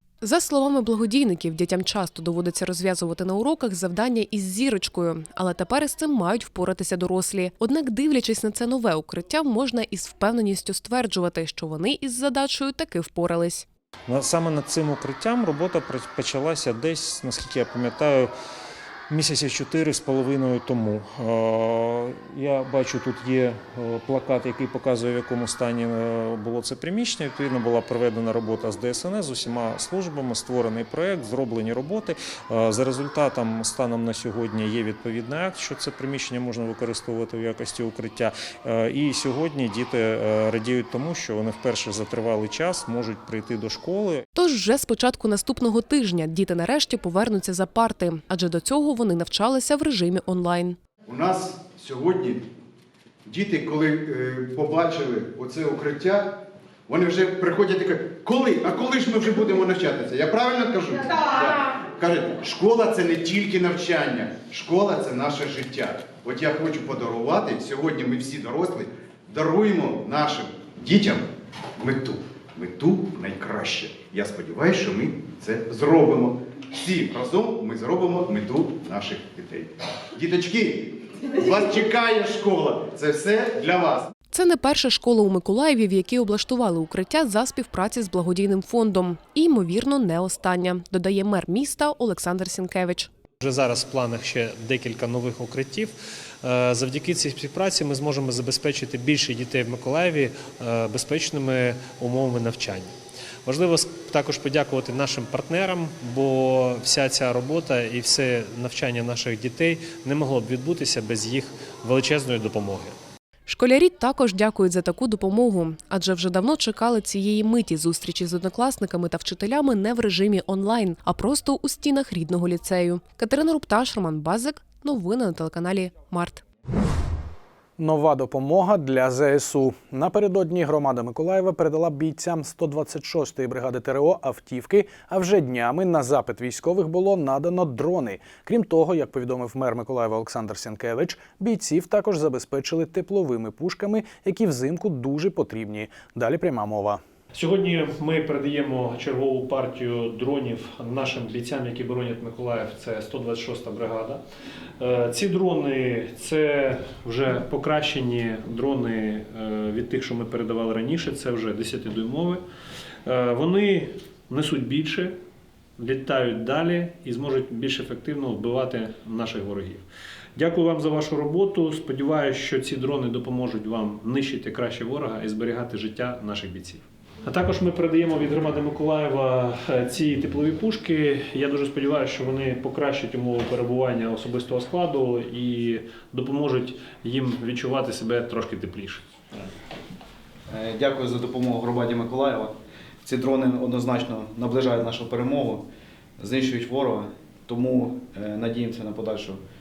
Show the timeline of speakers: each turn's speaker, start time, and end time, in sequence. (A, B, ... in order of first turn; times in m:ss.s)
0:00.2-0:13.7 A
0:14.1-0:18.3 B
0:19.1-0:44.3 B
0:44.4-0:50.8 A
0:51.0-0:52.4 C
0:53.3-1:24.1 C
1:24.3-1:33.1 A
1:33.4-1:53.0 D
1:53.5-2:06.4 A
2:07.8-2:27.0 E
2:27.3-2:34.2 D
2:34.8-2:42.4 D
2:43.1-2:45.2 D
2:45.8-2:49.8 D
2:50.4-3:09.0 D
3:10.5-3:19.4 F